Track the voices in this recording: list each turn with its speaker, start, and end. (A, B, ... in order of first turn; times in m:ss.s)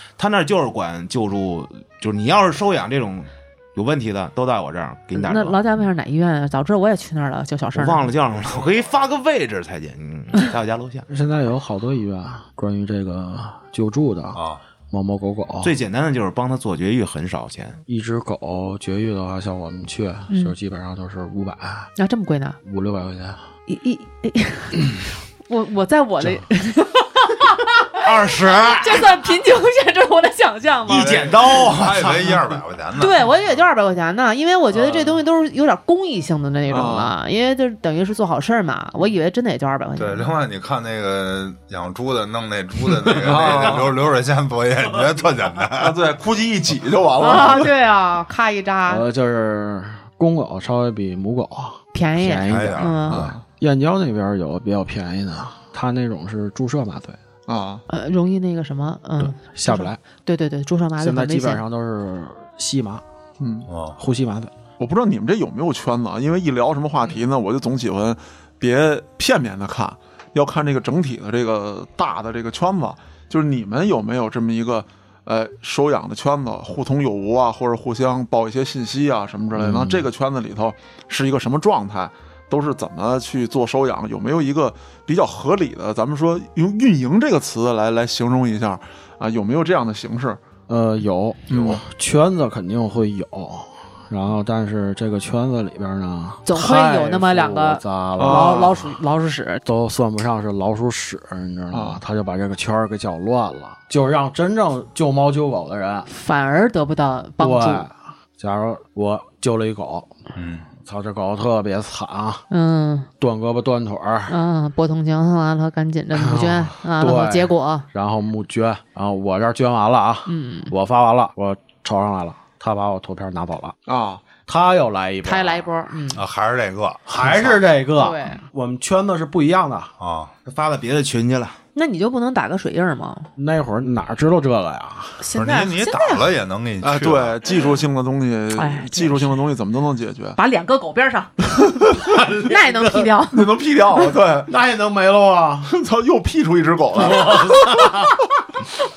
0:00.2-0:05.6 A
0:05.1-0:08.1 B
0:07.7-0:11.1 A
0:11.1-0:15.7 C
0:14.4-0:14.6 D
0:15.6-0:17.8 A
0:17.9-0:21.9 C
0:20.3-0:20.6 B
0:22.0-0:22.6 B
0:22.6-0:23.4 C
0:23.7-0:28.1 B
0:28.0-0:29.1 A
0:28.7-0:31.4 B
0:30.9-0:32.6 A
0:30.9-0:33.3 D
0:33.0-0:40.3 B
0:36.7-0:37.1 E
0:40.0-0:46.0 D
0:43.1-0:44.0 E
0:45.8-0:47.7 E
0:47.2-0:49.0 B
0:48.9-0:52.9 C
0:51.9-0:53.3 B
0:52.4-0:53.3 D
0:53.1-0:53.4 E
0:53.5-0:57.2 C
0:57.5-0:57.8 E
0:57.9-1:01.6 B
0:59.2-1:00.0 C
1:01.0-1:03.0 C
1:03.4-1:03.7 E
1:03.7-1:04.0 D
1:04.0-1:04.5 C
1:04.8-1:30.4 E
1:19.6-1:20.1 C
1:30.7-1:38.9 C
1:31.5-1:31.8 E
1:36.5-1:39.6 B
1:38.2-1:38.7 E
1:39.6-1:46.1 C
1:41.7-1:42.0 E
1:46.1-1:47.9 B
1:47.4-1:50.1 C
1:50.4-1:50.7 D
1:50.8-1:52.4 C
1:52.5-1:53.1 B
1:53.2-1:54.4 C
1:54.3-1:57.9 B
1:56.2-2:03.8 C
2:00.3-2:00.7 B
2:03.9-2:04.2 E
2:04.5-2:05.7 C
2:05.2-2:06.2 B
2:06.1-2:07.6 D
2:07.1-2:09.9 C
2:08.0-2:08.4 B
2:10.0-2:10.3 D
2:10.5-2:11.6 A
2:11.8-2:13.3 B
2:13.4-2:15.2 C
2:15.2-2:16.3 B
2:15.4-2:17.4 D
2:16.8-2:20.4 E
2:18.5-2:19.4 B
2:20.4-2:23.6 B
2:22.2-2:23.1 C
2:23.3-2:24.5 E
2:24.5-2:25.7 C
2:25.7-2:27.9 E
2:27.0-2:28.1 C